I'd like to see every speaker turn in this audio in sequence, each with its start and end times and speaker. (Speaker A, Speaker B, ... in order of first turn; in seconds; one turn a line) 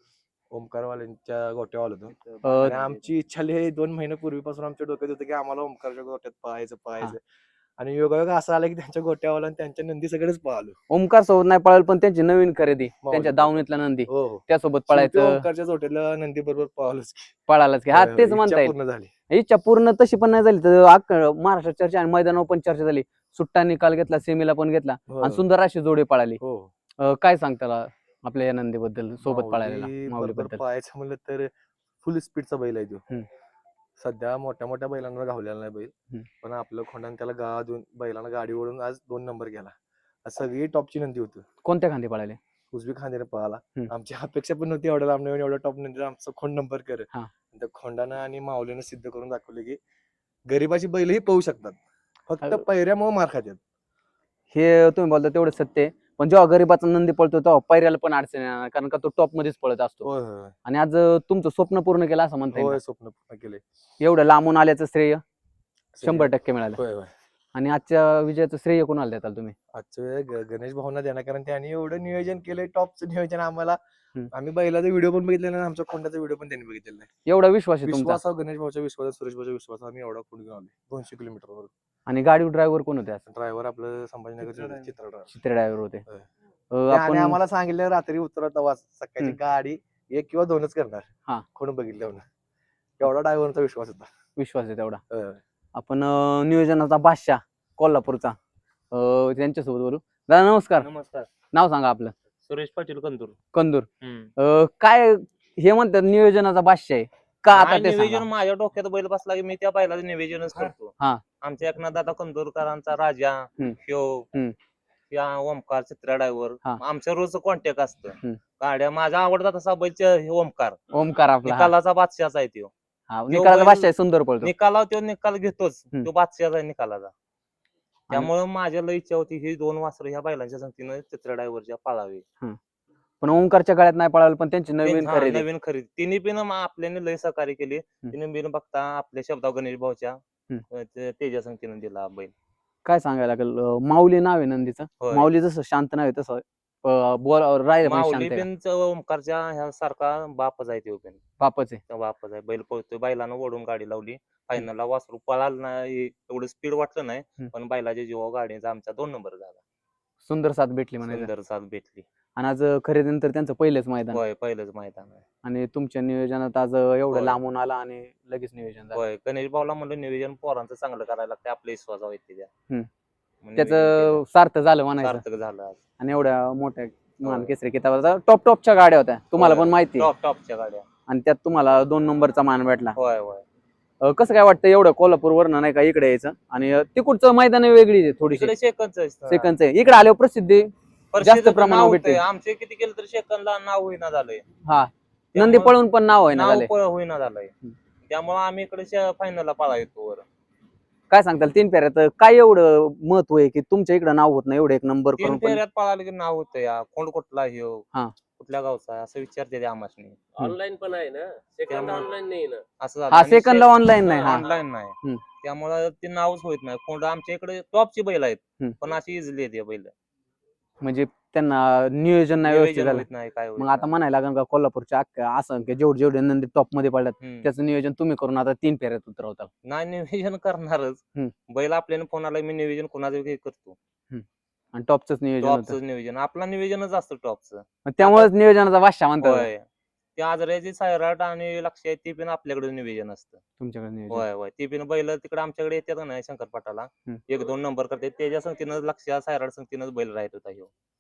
Speaker A: 0.5-7.2
Speaker B: 2.3-3.0
Speaker C: 2.4-2.8
Speaker A: 7.8-10.8
Speaker C: 10.9-15.4
Speaker A: 13.0-17.4
Speaker C: 17.5-18.7
Speaker A: 17.9-19.1
Speaker C: 19.3-26.4
Speaker A: 25.1-25.4
Speaker A: 26.4-26.7
Speaker C: 27.0-30.6
Speaker A: 29.2-31.5
Speaker A: 32.0-33.0
Speaker A: 34.0-39.7
Speaker A: 40.2-41.5
Speaker C: 41.6-42.4
Speaker A: 42.7-49.8
Speaker A: 50.5-53.6
Speaker C: 54.5-60.1
Speaker A: 60.0-60.5
Speaker C: 60.7-62.8
Speaker A: 62.5-63.6
Speaker C: 64.0-65.2
Speaker A: 65.9-67.1
Speaker C: 66.0-66.8
Speaker C: 67.5-69.5
Speaker A: 69.7-73.8
Speaker A: 74.3-77.1
Speaker C: 77.3-78.2
Speaker A: 77.8-81.7
Speaker C: 82.1-83.2
Speaker A: 83.3-85.3
Speaker C: 85.3-86.0
Speaker C: 86.7-87.4
Speaker A: 86.9-92.2
Speaker A: 93.0-94.1
Speaker C: 94.4-95.0
Speaker A: 95.1-95.4
Speaker C: 95.8-98.4
Speaker C: 98.9-100.9
Speaker B: 100.8-101.3
Speaker C: 101.5-102.1
Speaker B: 102.5-103.4
Speaker C: 103.5-108.3
Speaker B: 104.0-104.3
Speaker B: 107.5-114.3
Speaker B: 115.1-120.8
Speaker C: 120.9-121.7
Speaker B: 121.4-122.7
Speaker C: 123.1-124.5
Speaker B: 123.3-123.9
Speaker B: 124.4-127.1
Speaker B: 128.1-132.2
Speaker C: 133.2-135.5
Speaker B: 134.8-140.2
Speaker B: 140.7-142.3
Speaker C: 142.8-148.5
Speaker B: 145.0-145.3
Speaker B: 147.8-151.2
Speaker C: 151.4-151.8
Speaker B: 151.9-159.6
Speaker C: 160.2-161.3
Speaker B: 161.1-162.1
Speaker C: 162.4-164.2
Speaker B: 164.1-165.2
Speaker C: 165.4-169.0
Speaker B: 167.1-167.4
Speaker B: 168.9-172.5
Speaker B: 173.4-174.2
Speaker C: 173.6-175.2
Speaker B: 175.0-175.8
Speaker C: 176.0-180.1
Speaker B: 177.2-177.5
Speaker B: 179.4-180.9
Speaker C: 181.1-183.0
Speaker B: 183.0-183.4
Speaker C: 184.0-188.5
Speaker B: 188.3-189.5
Speaker C: 189.3-190.7
Speaker B: 191.1-194.4
Speaker C: 191.2-192.2
Speaker C: 194.7-196.7
Speaker B: 195.3-195.8
Speaker B: 196.3-197.5
Speaker B: 198.1-200.2
Speaker C: 201.1-205.6
Speaker B: 205.2-207.8
Speaker B: 208.4-210.3
Speaker D: 210.3-212.6
Speaker B: 211.7-212.1
Speaker B: 212.8-219.9
Speaker C: 213.1-214.4
Speaker C: 220.8-223.1
Speaker B: 222.4-223.9
Speaker C: 223.6-229.5
Speaker B: 227.2-227.5
Speaker B: 229.6-233.8
Speaker C: 234.1-235.8
Speaker B: 235.4-238.3
Speaker C: 237.9-239.5
Speaker B: 239.2-239.7
Speaker B: 240.2-243.4
Speaker C: 243.6-244.2
Speaker B: 244.1-250.7